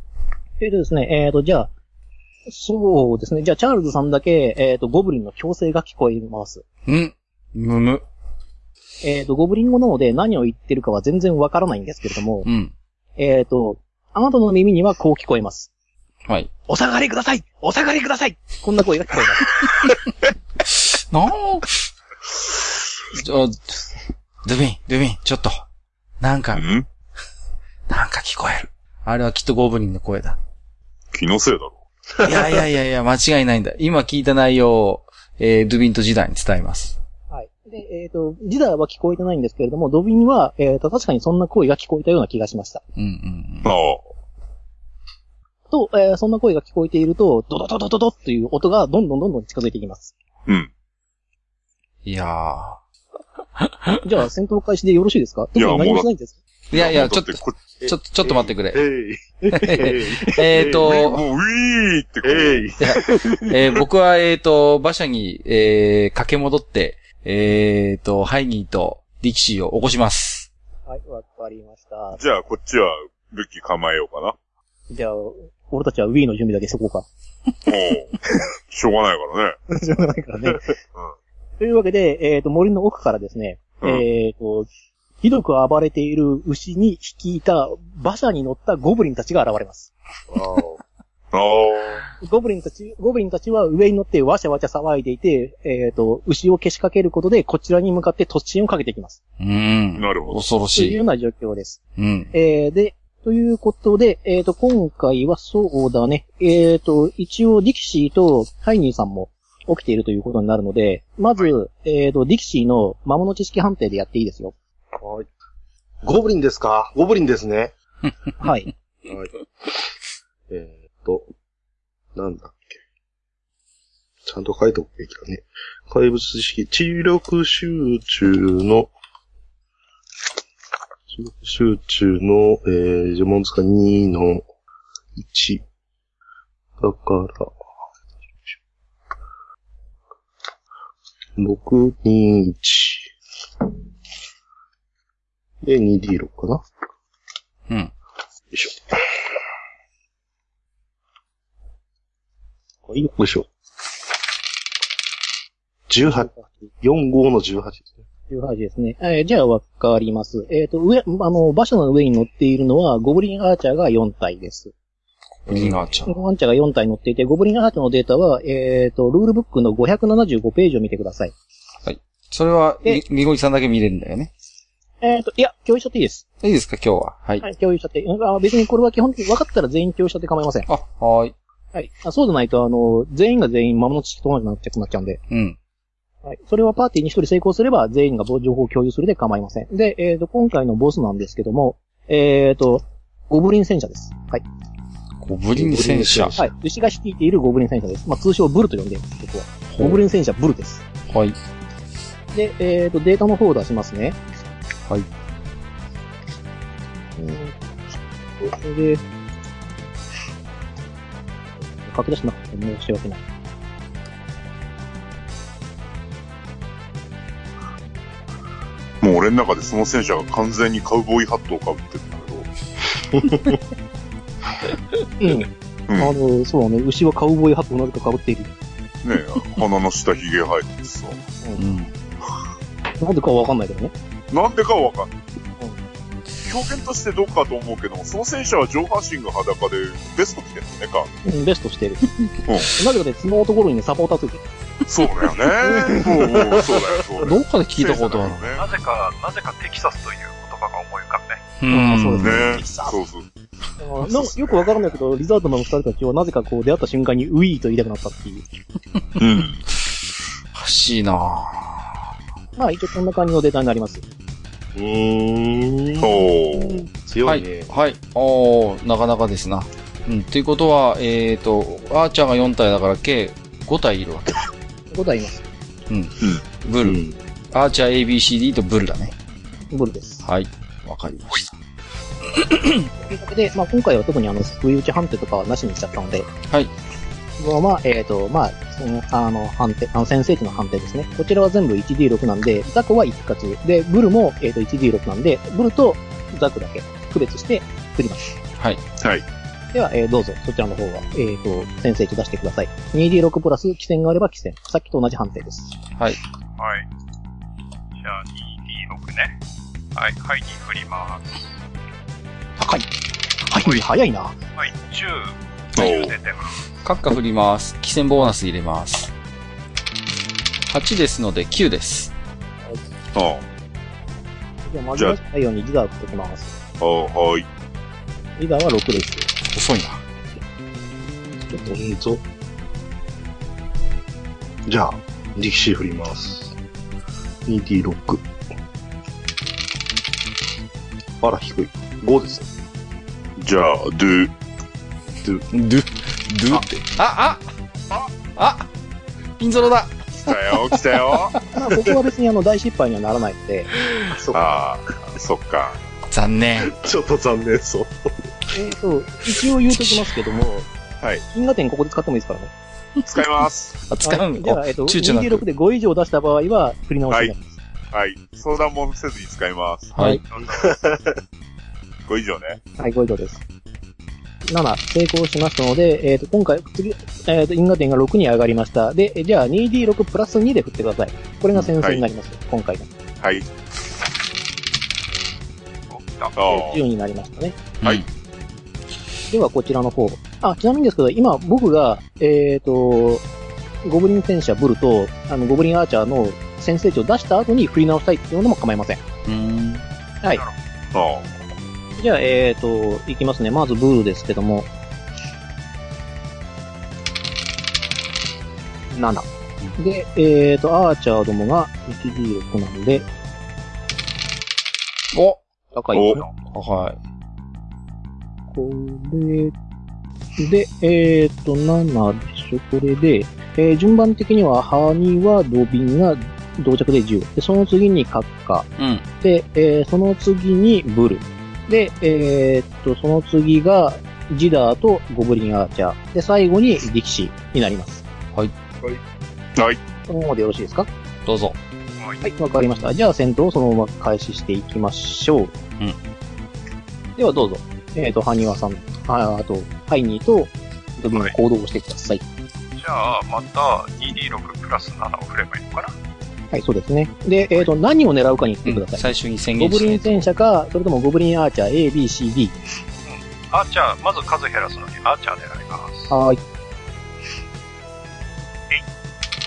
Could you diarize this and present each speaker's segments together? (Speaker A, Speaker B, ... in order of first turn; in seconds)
Speaker A: 0.6-1.7, 2.5-6.6, 9.0-12.5, 13.2-15.7, 16.7-19.6, 37.3-42.8, 45.7-50.1, 54.0-56.4, 70.9-72.2, 74.9-77.1, 79.7-80.8, 81.6-84.7, 85.2-89.9, 92.2-99.2, 100.7-101.8, 102.3-114.5, 118.4-118.7, 156.0-156.7, 158.3-164.7, 166.1-171.3, 175.0-176.2, 177.4-180.7, 181.7-185.2, 186.2-194.4, 196.4-200.8, 202.3-204.2, 207.2-207.5, 208.4-209.0, 211.7-213.2, 225.2-228.5, 233.0-233.9, 241.2-244.4, 251.7-253.0, 253.8-258.4, 262.6-264.0, 274.9-275.4, 279.7-280.2, 283.0-286.3, 287.4-298.2, 299.7-305.7, 312.6-312.9, 313.4-314.4, 324.6-326.5, 328.4-329.3, 351.5-353.7, 358.5-360.7, 361.3-362.5, 364.0-367.6, 370.0-370.2, 372.7-373.4, 374.5-382.9, 386.4-387.6, 389.3-393.2, 393.8-399.0, 402.0-404.7, 408.9-413.1, 415.7-416.3, 418.5-419.5, 420.4-428.7, 429.2-438.0, 440.1-440.9, 442.2-445.5, 447.2-452.2, 456.5-462.6, 466.1-466.4
Speaker B: 6.8-8.0, 12.4-12.7, 20.6-21.9, 23.1-23.8, 24.4-25.6, 26.2-26.6, 27.9-30.4, 32.2-37.0, 43.0-43.7, 52.0-52.8, 53.6-54.0, 56.7-58.8, 59.5-61.2, 62.8-70.5, 99.4-101.0, 102.0-102.3, 165.5-166.1, 171.8-174.3, 176.4-177.4, 180.7-181.3, 185.3-185.6, 195.2-196.4, 199.7-200.0, 201.1-201.4, 231.6-231.9, 247.2-248.5, 251.6-252.5, 260.5-262.0, 267.2-274.4, 275.9-277.0, 277.5-279.1, 280.2-281.6, 282.4-282.8, 316.8-319.1, 320.6-322.1, 329.5-330.0, 345.5-347.4, 348.3-348.7, 349.4-349.9, 356.1-356.7, 363.9-365.4, 369.9-370.2, 387.8-388.1, 399.2-399.9, 415.1-415.4, 416.5-417.0, 428.8-429.0, 441.2-441.6, 458.6-460.3
Speaker C: 26.5-26.9, 31.1-31.8, 43.6-44.0, 55.5-56.1, 56.7-57.6, 60.8-62.6, 72.2-74.3, 77.6-79.6, 91.3-92.1, 100.0-100.4, 219.0-222.5, 225.9-226.2, 229.0-231.2, 234.3-235.1, 236.4-241.1, 242.4-242.8, 244.8-248.7, 252.2-253.3, 259.2-259.6, 266.0-266.8, 315.8-316.2, 323.1-323.4, 326.8-327.5, 343.4-344.3, 350.2-351.4, 354.3-355.8, 363.0-363.7, 367.9-369.9, 372.1-372.6, 381.8-382.0, 383.2-383.5, 386.3-386.8, 400.9-401.3, 415.9-416.2
Speaker D: 57.8-60.9, 62.2-63.6, 90.3-90.8, 115.0-115.3, 116.0-117.7, 119.0-119.3, 120.5-121.3, 122.1-122.8, 124.2-128.9, 131.1-134.4, 135.2-135.6, 136.8-137.5, 141.4-143.1, 145.6-146.6, 148.5-149.0, 153.0-153.5, 155.9-158.0, 165.5-166.0, 195.5-196.4, 245.8-246.7, 264.7-267.7, 276.8-277.2, 331.5-332.2, 334.7-336.5, 337.5-338.2, 341.2-342.5, 354.0-354.6, 356.6-358.5, 370.5-371.1
Speaker E: 248.6-251.4, 306.6-306.8, 308.0-309.3, 309.9-311.4, 313.6-313.9, 314.6-316.5, 370.3-370.7, 385.9-386.3, 442.0-442.2, 452.8-455.9, 463.0-466.2